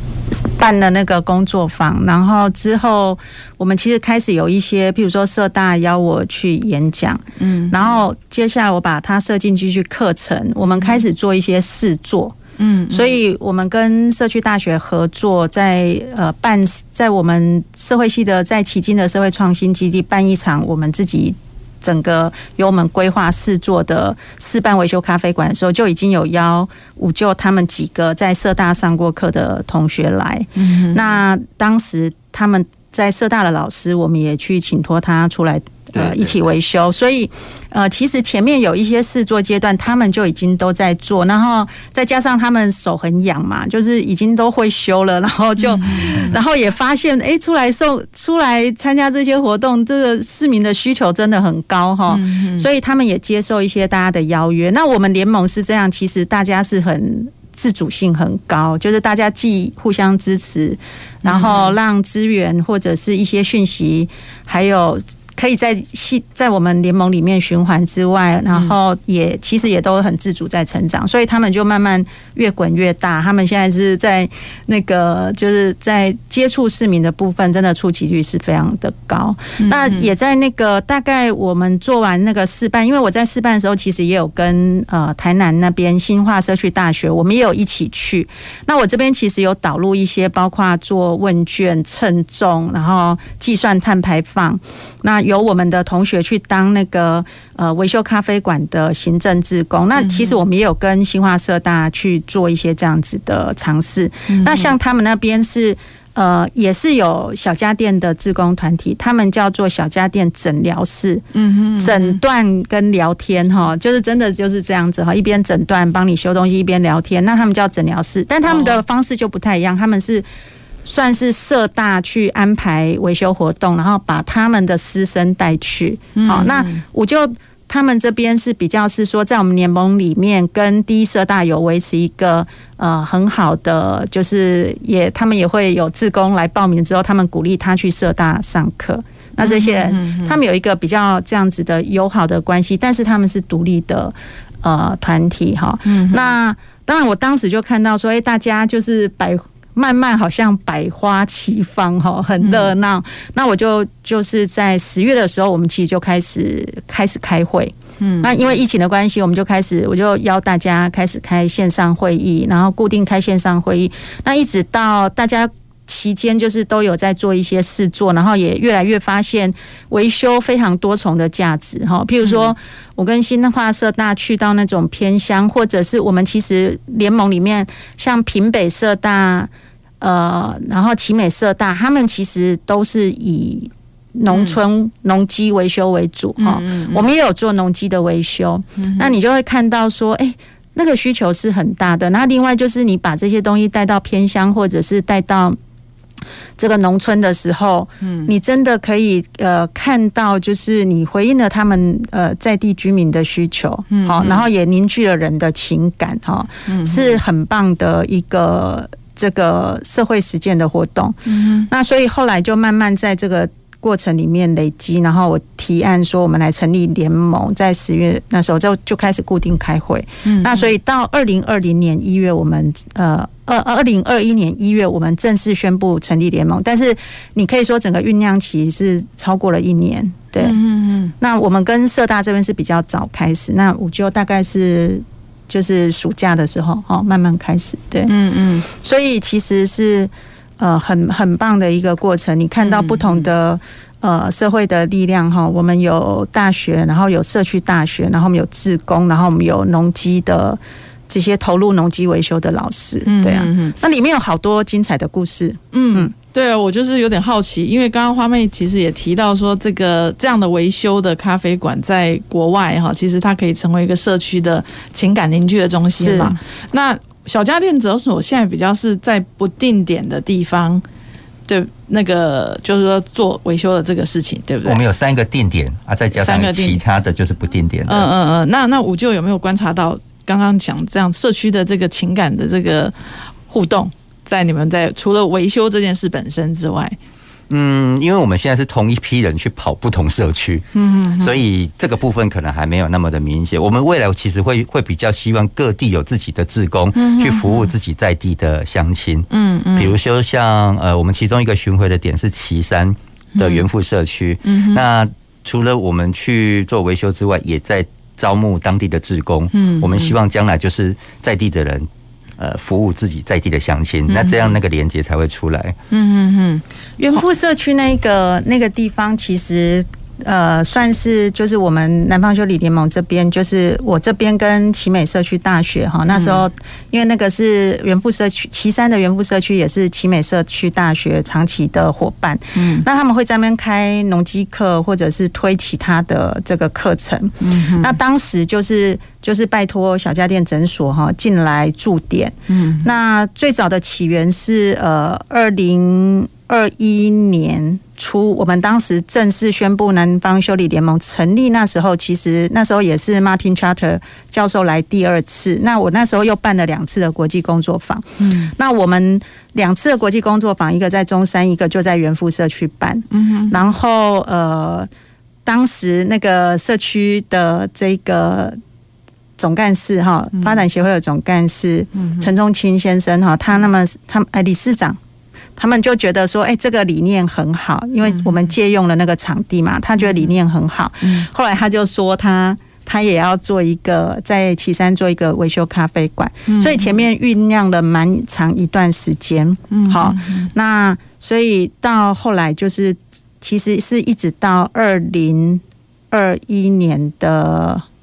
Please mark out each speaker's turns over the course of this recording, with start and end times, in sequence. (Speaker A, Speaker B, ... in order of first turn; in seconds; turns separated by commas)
Speaker A: 0.6-12.3, Speaker B: 7.4-7.9, Speaker B: 10.8-11.0, Speaker B: 12.6-13.2, Speaker A: 12.9-111.2, Speaker B: 30.6-31.1, Speaker C: 35.9-36.4, Speaker B: 45.6-46.4, Speaker B: 52.1-52.6, Speaker B: 61.2-61.8, Speaker B: 79.6-80.1, Speaker B: 100.0-100.4, Speaker B: 104.3-104.7, Speaker B: 111.3-112.2, Speaker A: 111.8-120.2, Speaker B: 118.4-118.8, Speaker A: 120.8-195.6, Speaker B: 126.2-126.8, Speaker B: 139.4-140.4, Speaker B: 145.8-146.3, Speaker B: 152.4-152.7, Speaker B: 158.0-158.5, Speaker B: 172.2-172.5, Speaker B: 184.3-184.6, Speaker B: 186.4-187.1, Speaker B: 188.8-189.1, Speaker A: 196.6-211.2, Speaker B: 198.0-198.3, Speaker B: 203.9-204.4, Speaker B: 206.7-207.2, Speaker B: 211.3-211.7, Speaker A: 211.7-230.6, Speaker B: 220.2-220.7, Speaker B: 230.4-231.1, Speaker A: 231.2-238.1, Speaker B: 238.1-238.7, Speaker A: 238.7-256.1, Speaker B: 242.6-243.3, Speaker B: 253.1-253.8, Speaker B: 255.7-270.8, Speaker A: 266.0-266.4, Speaker B: 271.5-274.8, Speaker C: 274.6-278.1, Speaker B: 276.1-276.8, Speaker B: 277.9-282.9, Speaker B: 283.5-286.9, Speaker C: 287.5-290.6, Speaker B: 290.7-291.4, Speaker C: 291.2-315.8, Speaker B: 296.9-297.7, Speaker B: 299.3-299.9, Speaker B: 303.4-303.6, Speaker B: 304.4-304.8, Speaker B: 309.5-310.1, Speaker B: 314.1-314.6, Speaker B: 315.9-317.2, Speaker A: 317.0-364.9, Speaker B: 326.1-326.4, Speaker B: 332.6-332.8, Speaker B: 337.4-337.9, Speaker B: 342.5-342.9, Speaker B: 358.2-358.5, Speaker B: 363.1-363.6, Speaker A: 365.4-368.6, Speaker A: 369.4-375.0, Speaker B: 370.4-370.6, Speaker B: 372.0-372.3, Speaker A: 375.6-397.8, Speaker B: 378.0-378.5, Speaker B: 380.0-380.3, Speaker B: 381.0-381.3, Speaker B: 386.5-387.0, Speaker B: 389.7-390.5